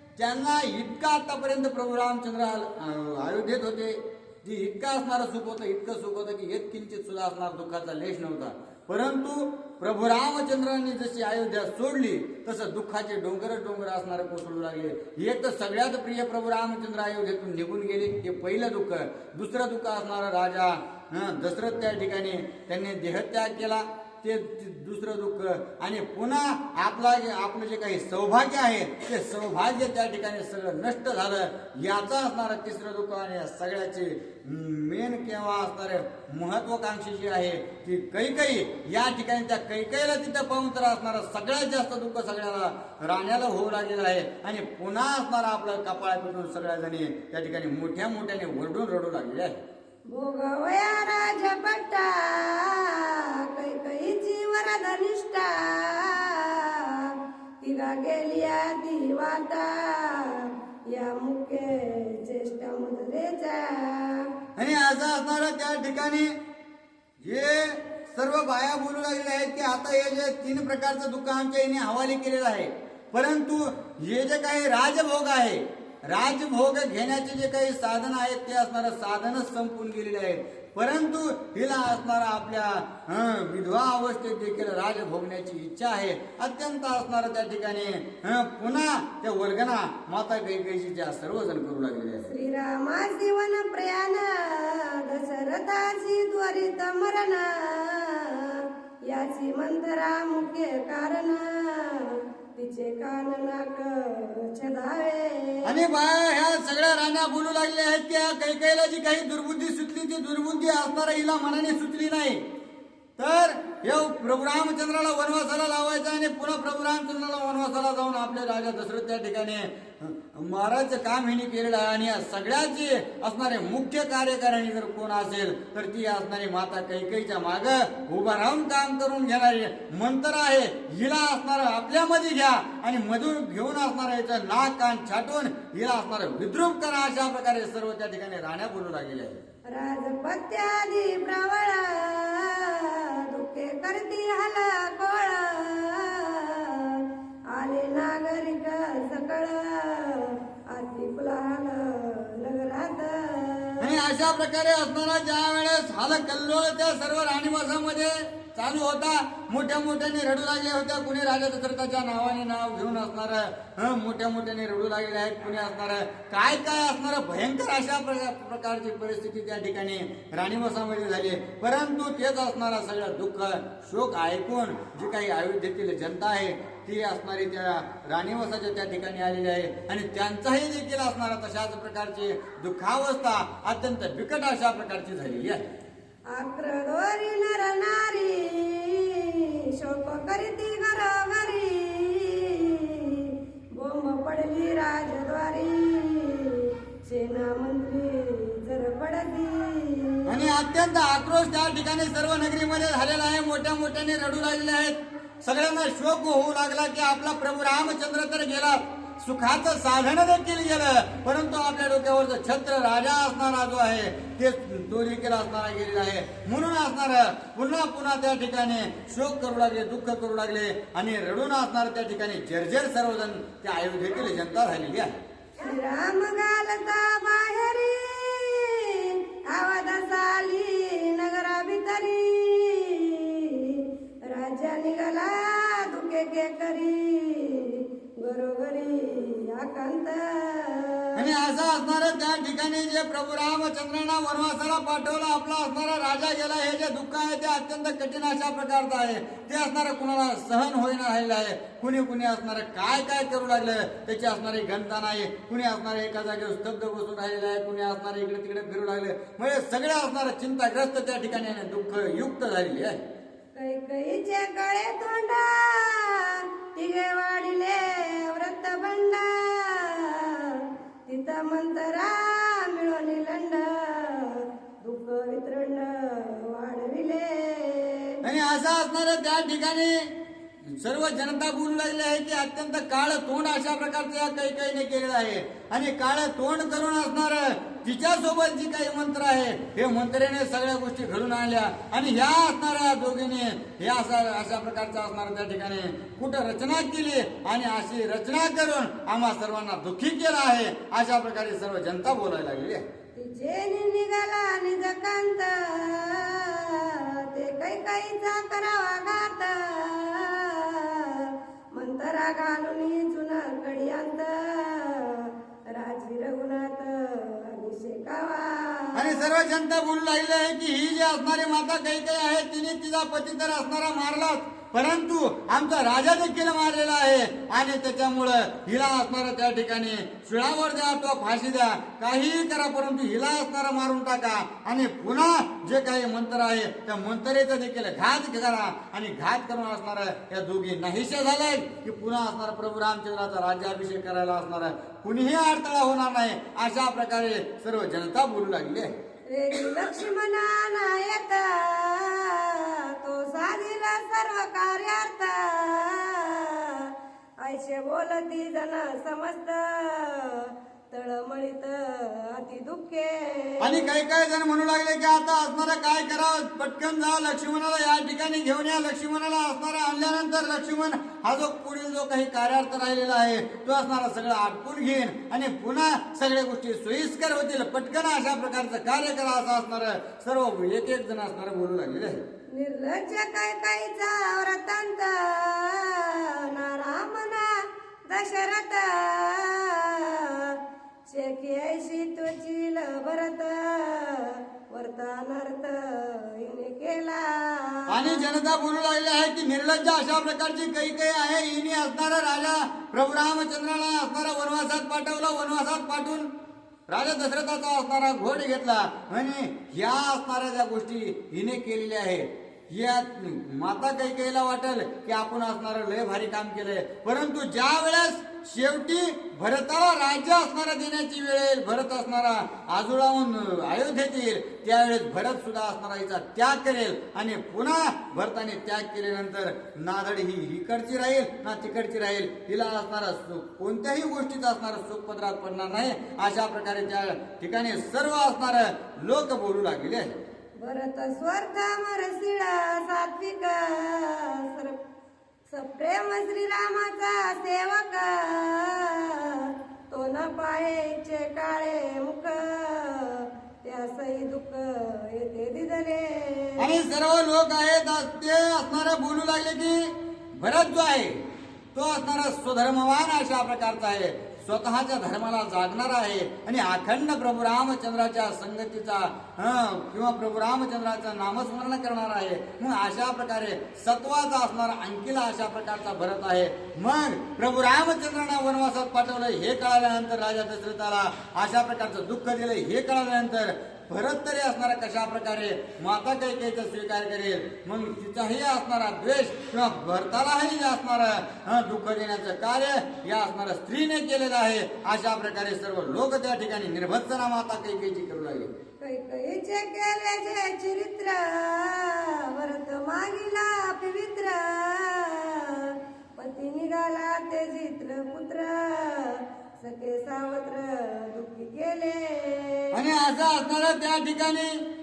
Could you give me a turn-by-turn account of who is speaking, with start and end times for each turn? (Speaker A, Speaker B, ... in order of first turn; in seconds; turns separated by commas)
Speaker A: 0.2-49.6, Speaker B: 50.1-64.3, Speaker A: 64.5-66.3, Speaker A: 67.2-92.3, Speaker B: 92.2-105.7, Speaker A: 105.6-112.4, Speaker A: 113.2-139.4, Speaker B: 139.7-153.9, Speaker A: 153.8-185.6, Speaker B: 186.3-200.3, Speaker A: 200.3-225.1, Speaker B: 225.6-241.2, Speaker A: 241.2-263.0, Speaker B: 263.5-278.1, Speaker A: 278.2-280.1, Speaker A: 280.8-302.8, Speaker B: 303.1-319.2, Speaker A: 318.9-348.9, Speaker B: 349.3-356.9, Speaker B: 357.4-363.9, Speaker A: 363.6-382.2, Speaker B: 382.5-398.2, Speaker A: 397.9-406.3, Speaker A: 406.9-440.2, Speaker B: 440.6-444.8, Speaker B: 445.5-456.6, Speaker A: 456.6-461.2, Speaker A: 461.7-498.5, Speaker B: 498.8-512.7, Speaker A: 512.7-514.6